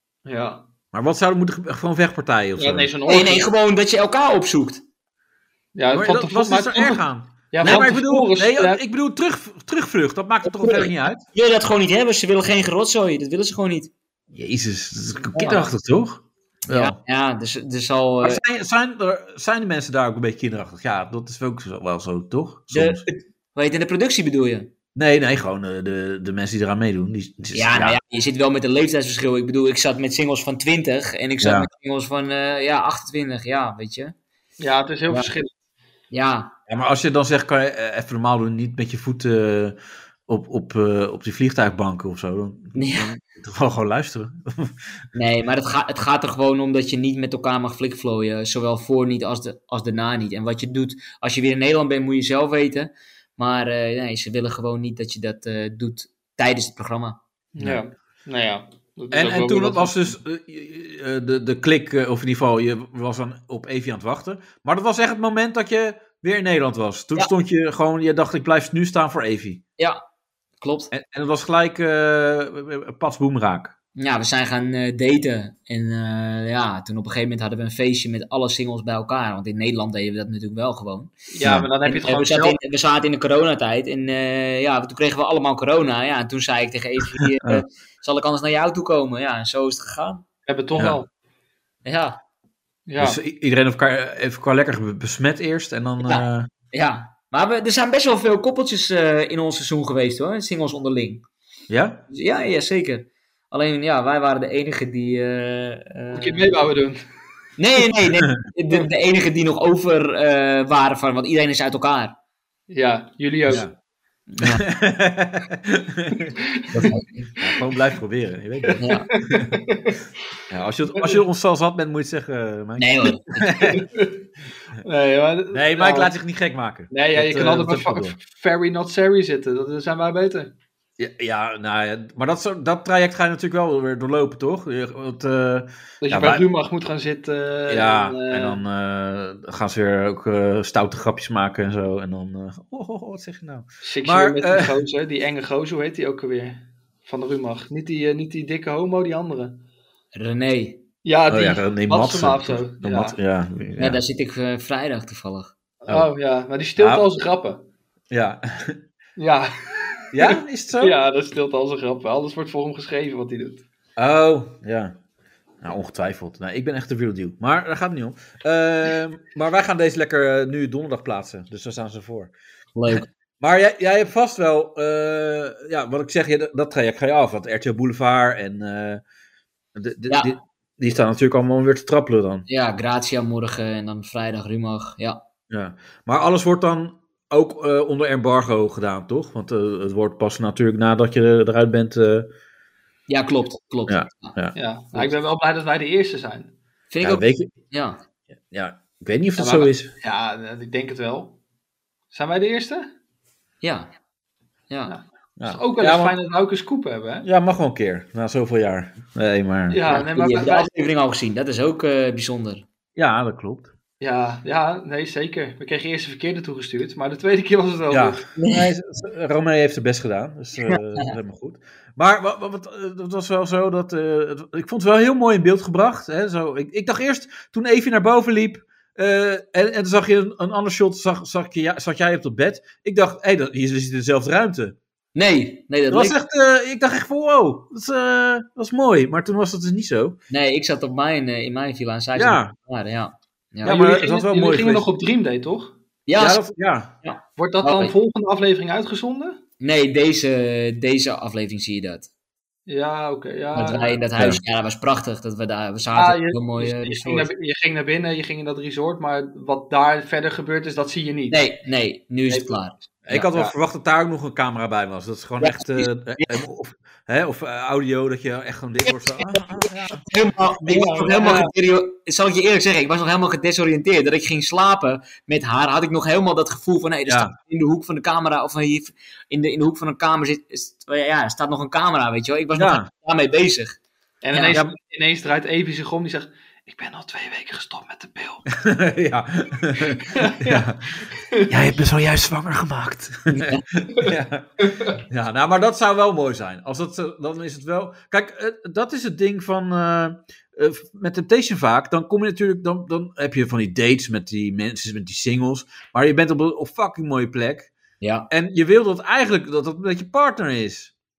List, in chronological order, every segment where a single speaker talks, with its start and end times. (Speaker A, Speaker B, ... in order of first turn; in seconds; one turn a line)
Speaker A: 0.3-0.7
Speaker B: 0.9-2.9
Speaker A: 2.6-3.5
Speaker C: 3.1-4.8
Speaker A: 5.8-8.8
Speaker B: 5.9-11.2
Speaker C: 7.6-7.9
Speaker C: 10.4-13.9
Speaker B: 14.3-17.0
Speaker C: 15.3-15.7
Speaker C: 16.7-18.4
Speaker B: 18.2-23.0
Speaker C: 22.7-24.7
Speaker B: 24.9-28.0
Speaker C: 27.5-34.1
Speaker B: 31.4-31.7
Speaker A: 34.6-35.5
Speaker C: 36.1-36.5
Speaker B: 36.7-39.8
Speaker B: 40.3-44.8
Speaker C: 42.8-43.1
Speaker C: 45.1-57.2
Speaker A: 57.5-60.1
Speaker B: 59.1-69.6
Speaker C: 70.6-70.9
Speaker B: 70.9-73.7
Speaker C: 74.0-81.1
Speaker A: 81.3-82.6
Speaker C: 81.9-90.3
Speaker A: 90.5-91.1
Speaker C: 91.8-92.2
Speaker A: 92.9-93.2
Speaker B: 93.0-96.5
Speaker C: 96.0-101.2
Speaker B: 101.7-102.0
Speaker C: 102.1-106.5
Speaker A: 106.1-107.0
Speaker C: 107.6-112.2
Speaker A: 112.7-113.7
Speaker B: 113.5-113.7
Speaker C: 114.3-114.7
Speaker B: 114.4-116.3
Speaker A: 116.4-116.9
Speaker C: 116.7-117.3
Speaker B: 117.4-119.6
Speaker A: 118.6-120.0
Speaker C: 118.8-119.1
Speaker B: 120.5-123.9
Speaker A: 120.9-121.2
Speaker C: 122.8-123.5
Speaker A: 123.5-124.2
Speaker A: 124.8-126.1
Speaker B: 125.5-128.2
Speaker A: 126.9-130.5
Speaker B: 131.0-136.4
Speaker A: 136.0-138.6
Speaker B: 137.7-144.8
Speaker A: 143.8-149.6
Speaker C: 150.2-150.8
Speaker A: 151.1-153.2
Speaker B: 151.3-154.0
Speaker C: 153.8-155.5
Speaker A: 155.8-157.6
Speaker B: 156.8-157.1
Speaker B: 158.1-158.8
Speaker A: 159.2-163.6
Speaker B: 160.1-161.0
Speaker B: 164.0-165.0
Speaker B: 165.6-172.3
Speaker C: 172.8-173.1
Speaker B: 173.4-179.0
Speaker B: 179.8-182.5
Speaker C: 180.1-180.3
Speaker C: 182.5-185.2
Speaker B: 185.5-192.3
Speaker C: 193.1-194.4
Speaker B: 193.9-194.6
Speaker A: 194.6-196.5
Speaker C: 196.9-198.0
Speaker B: 197.0-197.5
Speaker B: 198.5-199.9
Speaker A: 199.4-201.4
Speaker A: 202.1-202.9
Speaker C: 203.6-203.9
Speaker C: 204.7-204.9
Speaker A: 204.9-207.3
Speaker B: 205.4-206.2
Speaker B: 207.2-209.8
Speaker A: 209.7-210.7
Speaker C: 209.9-212.7
Speaker B: 213.0-213.7
Speaker A: 214.0-218.3
Speaker B: 217.9-234.8
Speaker C: 218.4-218.7
Speaker C: 220.7-221.1
Speaker C: 235.2-236.2
Speaker B: 235.9-240.2
Speaker C: 240.3-243.7
Speaker B: 242.2-242.5
Speaker B: 243.6-244.9
Speaker A: 243.6-245.8
Speaker C: 246.1-246.4
Speaker B: 246.2-246.9
Speaker C: 247.0-247.9
Speaker A: 247.4-249.4
Speaker C: 249.6-252.1
Speaker A: 252.7-254.0
Speaker C: 253.6-257.3
Speaker A: 255.9-261.4
Speaker C: 261.3-263.3
Speaker A: 262.3-262.6
Speaker B: 263.1-270.0
Speaker C: 265.4-266.4
Speaker C: 268.8-283.8
Speaker B: 270.6-271.0
Speaker A: 270.7-271.5
Speaker B: 277.1-277.3
Speaker B: 282.6-282.9
Speaker A: 284.2-288.5
Speaker C: 284.3-284.6
Speaker B: 288.5-307.7
Speaker A: 289.8-291.6
Speaker C: 293.3-293.6
Speaker C: 308.0-308.3
Speaker B: 308.3-310.9